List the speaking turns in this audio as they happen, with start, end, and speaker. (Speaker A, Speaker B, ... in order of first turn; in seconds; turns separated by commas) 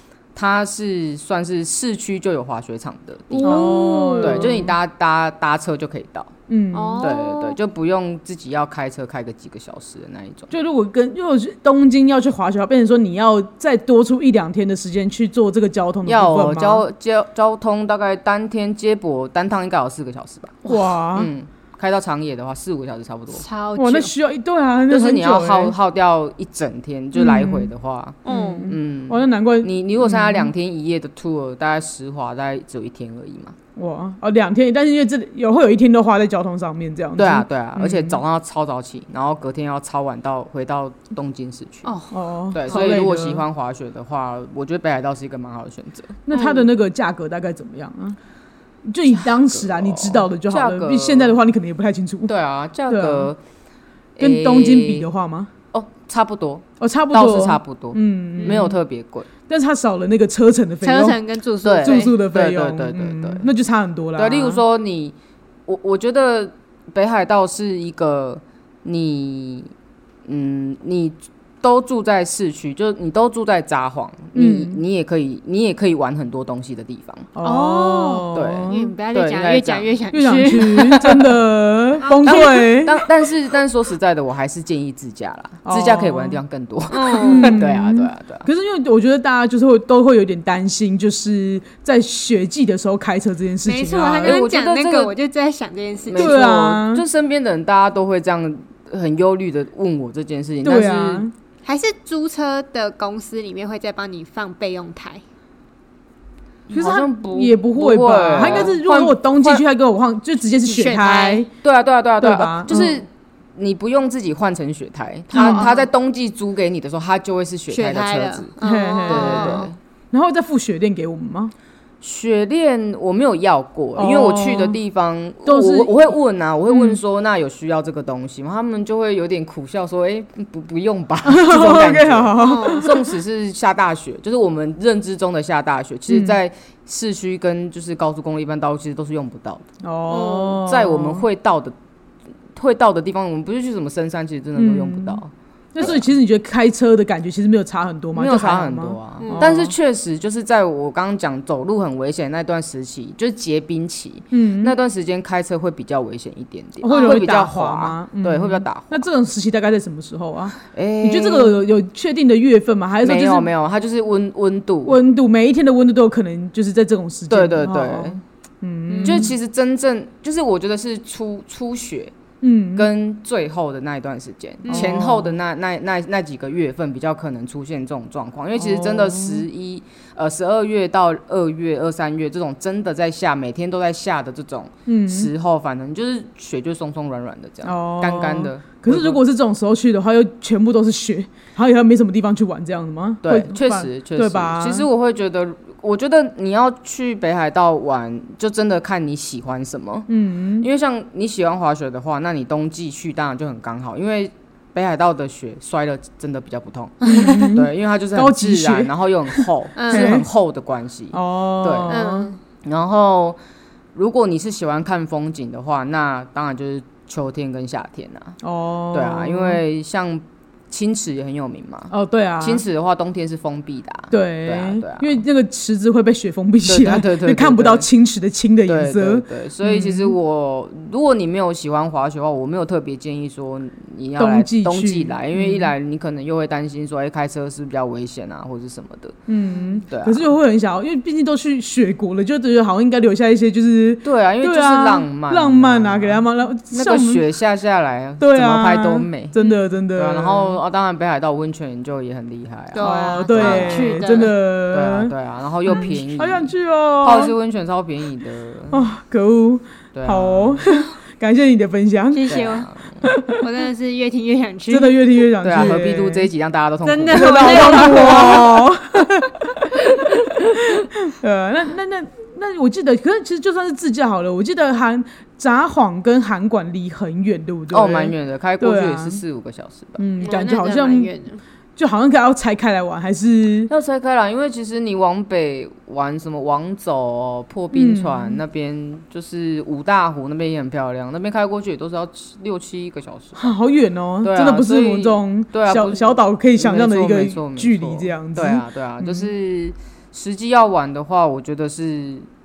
Speaker A: 0.3-6.3, Speaker B: 3.3-4.6, Speaker C: 3.4-4.7, Speaker C: 6.5-7.1, Speaker B: 6.7-7.6, Speaker A: 7.0-10.5, Speaker C: 10.5-16.8, Speaker A: 16.1-23.4, Speaker C: 20.6-21.3, Speaker B: 23.3-24.1, Speaker C: 23.7-25.7, Speaker A: 24.9-33.5, Speaker C: 27.1-27.7, Speaker B: 28.2-28.7, Speaker C: 28.2-30.5, Speaker C: 33.8-38.2, Speaker A: 37.2-41.9, Speaker B: 41.8-43.0, Speaker C: 42.1-43.4, Speaker A: 42.5-46.2, Speaker C: 46.2-48.2, Speaker B: 46.3-46.7, Speaker C: 48.9-52.3, Speaker A: 49.4-51.4, Speaker A: 52.2-53.4, Speaker C: 52.9-53.3, Speaker A: 54.2-55.0, Speaker C: 54.2-55.5, Speaker A: 55.7-59.3, Speaker C: 56.8-58.8, Speaker B: 58.4-58.7, Speaker C: 59.5-61.2, Speaker B: 60.8-62.2, Speaker A: 61.6-63.5, Speaker C: 61.8-64.6, Speaker A: 64.2-65.1, Speaker A: 65.7-69.7, Speaker A: 70.2-77.3, Speaker C: 74.3-74.8, Speaker C: 77.3-78.9, Speaker B: 77.4-81.0, Speaker A: 78.3-79.9, Speaker C: 80.1-83.0, Speaker A: 80.6-81.2, Speaker B: 82.0-82.5, Speaker A: 82.2-88.5, Speaker C: 85.6-86.4, Speaker B: 86.9-87.6, Speaker C: 87.2-94.4, Speaker B: 93.6-96.4, Speaker A: 94.2-95.1, Speaker A: 96.1-101.2, Speaker C: 96.1-97.0, Speaker C: 100.6-101.3, Speaker B: 101.6-105.2, Speaker A: 106.7-109.6, Speaker C: 106.7-111.5, Speaker B: 108.4-108.7, Speaker B: 110.6-111.5, Speaker A: 111.6-118.5, Speaker C: 112.2-112.9, Speaker B: 115.3-115.9, Speaker C: 115.3-115.7, Speaker B: 117.7-119.7, Speaker C: 118.6-121.5, Speaker A: 119.0-119.8, Speaker A: 122.0-139.7, Speaker C: 124.0-124.8, Speaker C: 125.4-126.1, Speaker C: 126.7-127.0, Speaker C: 131.2-133.2, Speaker B: 132.4-132.9, Speaker C: 136.1-136.4, Speaker C: 139.8-141.2, Speaker B: 140.1-140.7, Speaker A: 140.6-141.7, Speaker A: 142.5-146.0, Speaker C: 144.6-145.2, Speaker C: 145.7-149.7, Speaker A: 148.2-159.0, Speaker B: 149.2-149.5, Speaker C: 154.3-154.7, Speaker C: 156.8-163.5, Speaker B: 156.9-157.2, Speaker A: 160.7-161.6, Speaker A: 163.0-165.0, Speaker C: 164.8-169.3, Speaker A: 167.3-168.2, Speaker B: 168.9-169.3, Speaker A: 169.0-172.1, Speaker C: 172.4-172.9, Speaker A: 172.7-189.2, Speaker B: 174.6-174.9, Speaker C: 174.7-175.3, Speaker C: 178.6-179.4, Speaker C: 184.8-185.3, Speaker C: 187.6-194.9, Speaker A: 193.2-200.1, Speaker C: 200.1-200.7, Speaker A: 200.6-211.9, Speaker C: 207.1-210.2, Speaker B: 207.1-207.5, Speaker B: 209.8-210.2, Speaker C: 211.1-212.3, Speaker B: 211.9-212.4, Speaker A: 212.6-213.4, Speaker A: 213.9-218.4, Speaker C: 218.4-219.6, Speaker A: 218.9-225.2, Speaker C: 221.9-222.6, Speaker C: 224.1-230.1, Speaker A: 226.6-227.8, Speaker A: 228.7-239.2, Speaker C: 234.2-235.7, Speaker C: 239.3-247.2, Speaker A: 239.9-240.3, Speaker A: 244.0-249.3, Speaker C: 248.2-250.6, Speaker A: 249.9-254.2, Speaker B: 252.7-254.3, Speaker C: 252.8-255.1, Speaker A: 254.7-258.9, Speaker C: 255.7-257.3, Speaker C: 258.7-262.2, Speaker A: 259.9-260.6, Speaker B: 262.1-264.9, Speaker A: 262.3-263.2, Speaker C: 263.0-263.5, Speaker C: 264.7-266.3, Speaker A: 265.4-268.4, Speaker B: 266.8-268.6, Speaker C: 267.1-269.7, Speaker B: 269.5-270.6, Speaker C: 270.5-279.2, Speaker A: 277.7-280.0, Speaker C: 280.0-281.1, Speaker B: 280.2-281.4, Speaker C: 281.8-283.7, Speaker A: 283.7-293.5, Speaker C: 287.7-288.4, Speaker C: 293.3-299.3, Speaker A: 294.2-302.3